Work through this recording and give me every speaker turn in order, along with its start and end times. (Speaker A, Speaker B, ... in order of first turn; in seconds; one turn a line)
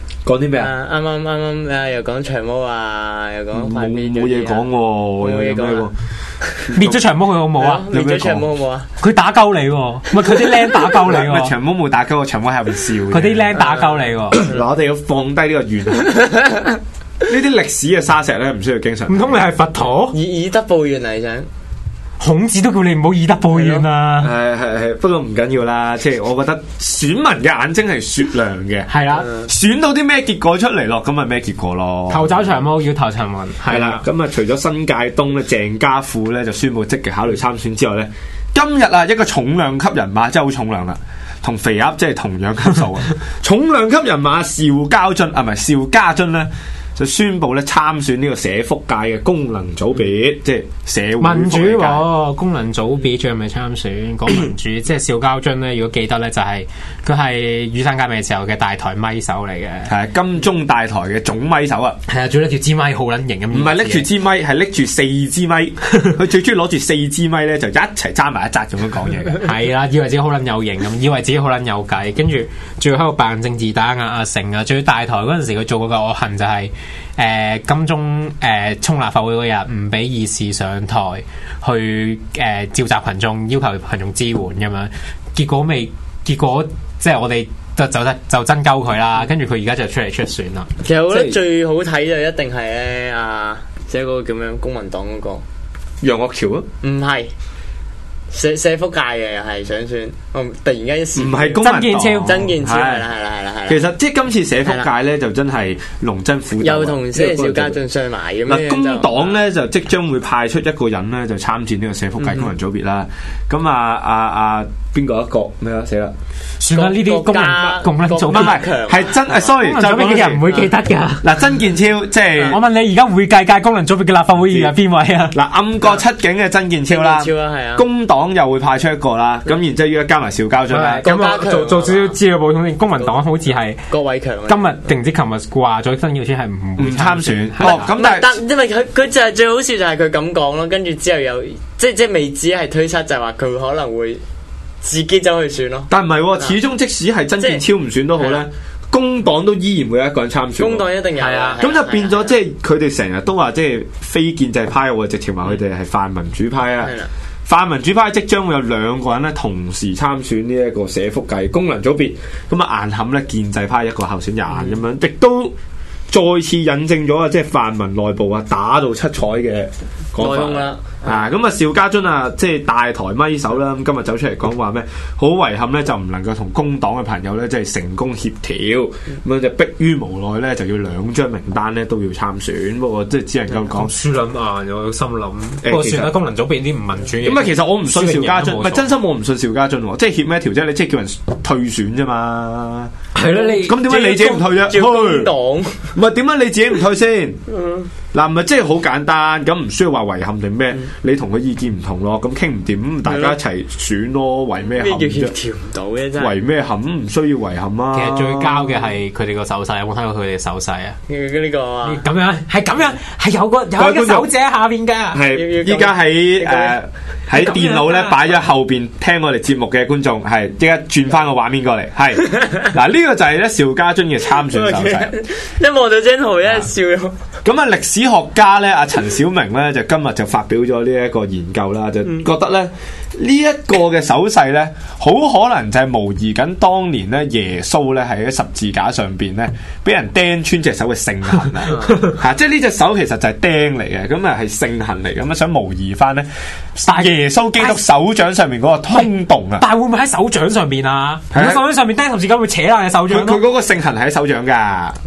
Speaker A: 0.3-0.7
Speaker B: 0.6-4.7
Speaker A: 3.5-5.9
Speaker B: 5.2-5.9
Speaker A: 6.7-7.0
Speaker C: 6.8-7.9
Speaker B: 7.6-8.9
Speaker A: 7.9-8.4
Speaker C: 9.0-11.5
Speaker A: 11.0-13.6
Speaker C: 13.1-14.4
Speaker B: 13.6-13.9
Speaker A: 14.3-16.3
Speaker A: 17.2-19.4
Speaker C: 19.1-20.2
Speaker B: 20.1-21.5
Speaker C: 22.2-24.3
Speaker B: 23.5-23.9
Speaker A: 24.2-32.5
Speaker C: 28.9-29.3
Speaker C: 32.1-34.0
Speaker A: 33.7-52.1
Speaker C: 51.2-59.9
Speaker A: 59.9-62.0
Speaker C: 62.1-64.1
Speaker A: 63.5-69.4
Speaker C: 69.4-90.7
Speaker B: 90.8-95.4
Speaker A: 91.1-91.4
Speaker A: 96.0-96.7
Speaker B: 96.8-97.3
Speaker B: 98.3-101.6
Speaker A: 101.2-103.0
Speaker C: 101.6-102.5
Speaker B: 102.2-103.8
Speaker A: 103.7-107.8
Speaker B: 106.6-109.3
Speaker A: 108.5-116.2
Speaker C: 116.6-118.7
Speaker B: 116.7-119.3
Speaker A: 118.3-120.7
Speaker C: 119.3-121.4
Speaker A: 121.2-122.6
Speaker C: 122.4-125.4
Speaker A: 124.5-124.7
Speaker A: 125.3-131.1
Speaker B: 126.9-127.8
Speaker C: 130.7-133.8
Speaker B: 131.0-132.2
Speaker B: 133.9-134.7
Speaker C: 134.5-137.9
Speaker A: 136.8-138.3
Speaker B: 137.6-144.2
Speaker B: 144.8-146.6
Speaker A: 145.9-150.8
Speaker B: 148.2-148.4
Speaker B: 150.6-152.4
Speaker C: 151.2-151.6
Speaker A: 151.6-156.9
Speaker B: 156.8-157.1
Speaker A: 157.5-165.6
Speaker A: 166.1-183.9
Speaker B: 170.2-171.2
Speaker C: 183.7-189.0
Speaker A: 185.6-186.1
Speaker A: 187.2-192.9
Speaker C: 193.2-194.5
Speaker B: 193.3-195.9
Speaker A: 193.7-195.3
Speaker A: 195.9-197.4
Speaker B: 197.5-197.9
Speaker A: 198.1-205.3
Speaker B: 203.1-203.4
Speaker B: 204.6-206.3
Speaker A: 206.2-208.8
Speaker C: 207.9-211.0
Speaker B: 211.1-212.0
Speaker C: 211.8-215.2
Speaker A: 213.8-214.3
Speaker A: 215.1-225.1
Speaker B: 215.3-216.8
Speaker C: 217.3-218.3
Speaker B: 224.4-227.2
Speaker A: 227.4-249.7
Speaker C: 241.7-242.1
Speaker B: 241.7-242.0
Speaker C: 246.8-247.8
Speaker C: 248.9-253.5
Speaker A: 251.3-251.6
Speaker A: 253.1-255.0